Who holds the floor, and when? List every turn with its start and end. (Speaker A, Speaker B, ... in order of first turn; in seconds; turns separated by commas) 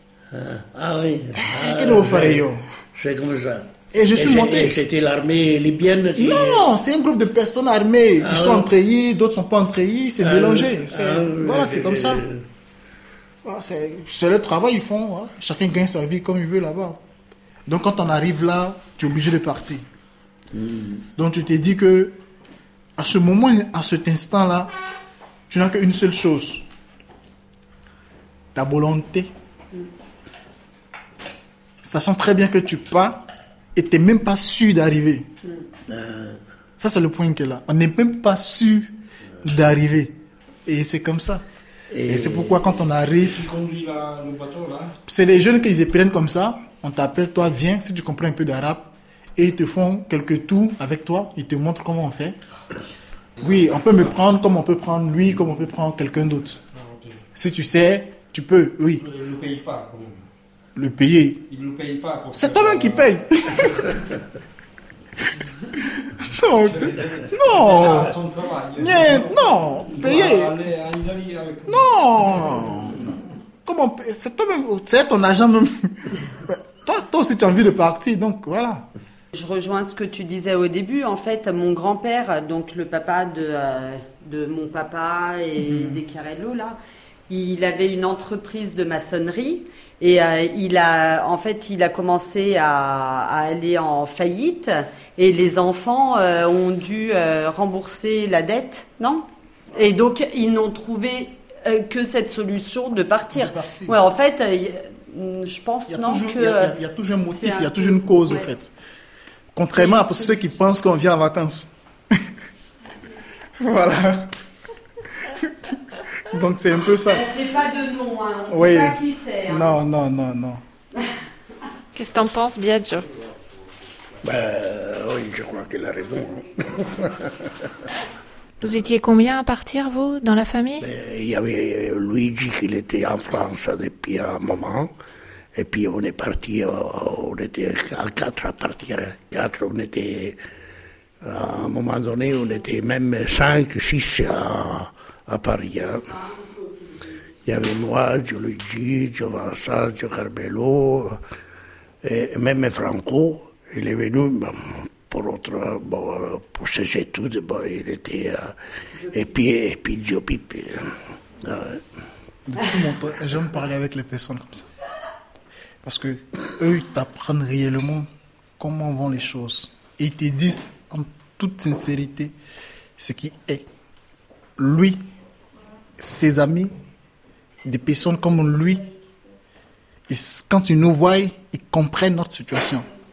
Speaker A: 0.3-6.7, Speaker B: 1.4-2.6, Speaker B: 3.9-4.8, Speaker B: 6.2-12.2, Speaker A: 8.2-8.7, Speaker A: 10.2-12.4, Speaker B: 13.4-17.0, Speaker B: 17.7-19.8, Speaker A: 20.5-21.1, Speaker B: 21.1-22.2, Speaker B: 23.0-24.7, Speaker B: 25.5-26.7, Speaker B: 28.6-29.3, Speaker B: 31.8-33.2, Speaker B: 33.8-35.3, Speaker A: 35.9-36.4, Speaker B: 36.8-40.1, Speaker B: 40.7-41.4, Speaker A: 41.9-42.6, Speaker B: 42.0-43.5, Speaker C: 43.4-45.0, Speaker B: 45.1-52.4, Speaker B: 53.4-56.6, Speaker C: 56.7-57.2, Speaker B: 57.4-59.1, Speaker C: 59.0-60.2, Speaker B: 60.8-61.5, Speaker C: 61.5-63.1, Speaker B: 62.3-63.9, Speaker B: 65.7-68.2, Speaker C: 66.4-71.9, Speaker B: 68.8-70.6, Speaker B: 71.7-78.9, Speaker D: 79.3-86.8, Speaker D: 87.3-108.5, Speaker B: 103.3-104.0, Speaker B: 105.9-108.7, Speaker B: 109.5-111.7, Speaker D: 109.7-110.3, Speaker B: 113.6-114.3, Speaker B: 115.2-117.3, Speaker D: 117.1-119.8, Speaker B: 118.5-120.6, Speaker E: 121.9-123.1, Speaker A: 124.2-127.5, Speaker E: 128.6-130.9, Speaker A: 130.8-134.9, Speaker A: 135.6-140.4, Speaker A: 141.2-146.3, Speaker A: 147.5-151.2, Speaker A: 152.0-158.5, Speaker D: 158.9-159.4, Speaker A: 159.1-160.9, Speaker A: 161.4-161.8, Speaker B: 162.5-164.7, Speaker B: 165.8-168.1, Speaker B: 168.6-172.3, Speaker B: 173.0-173.7, Speaker B: 174.6-175.0, Speaker B: 176.0-176.7, Speaker B: 177.6-178.9, Speaker B: 180.1-182.9